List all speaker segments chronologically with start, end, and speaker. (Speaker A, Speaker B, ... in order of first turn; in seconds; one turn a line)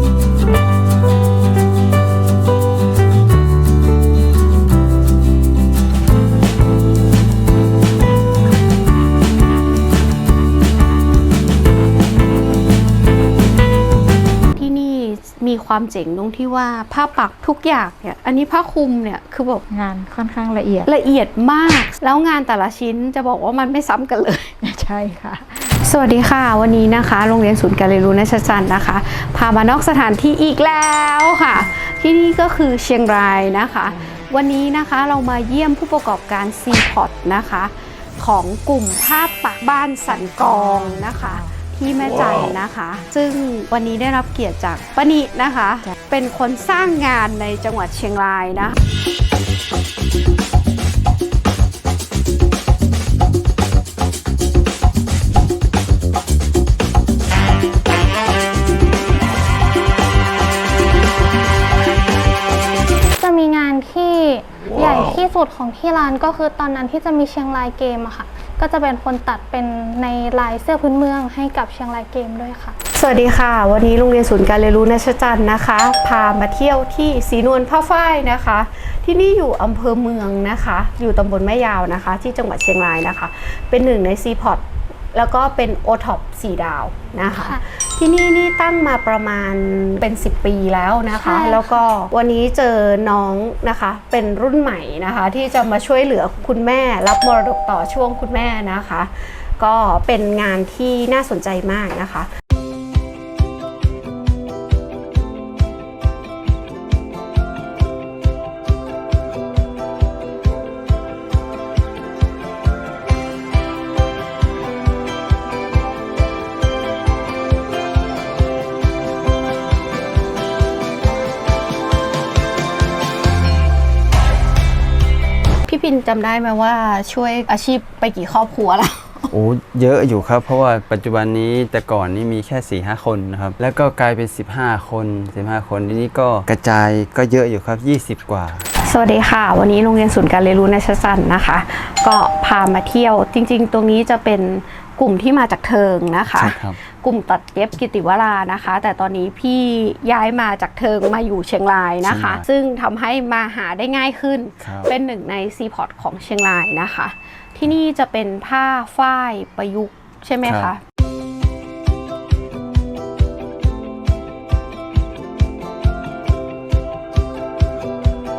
Speaker A: 14.5-19.6
Speaker B: 19.7-20.8
Speaker A: 20.9-24.5
Speaker B: 24.6-25.5
Speaker A: 25.8-48.8
Speaker C: 63.2-72.8
Speaker A: 73.0-102.3
Speaker C: 87.3-87.7
Speaker C: 91.1-91.8
Speaker A: 125.7-129.3
Speaker D: 129.3-138.7
Speaker A: 138.8-160.8
Speaker D: 146.3-146.8
Speaker D: 152.0-152.4
Speaker D: 154.6-154.9
Speaker D: 160.4-160.7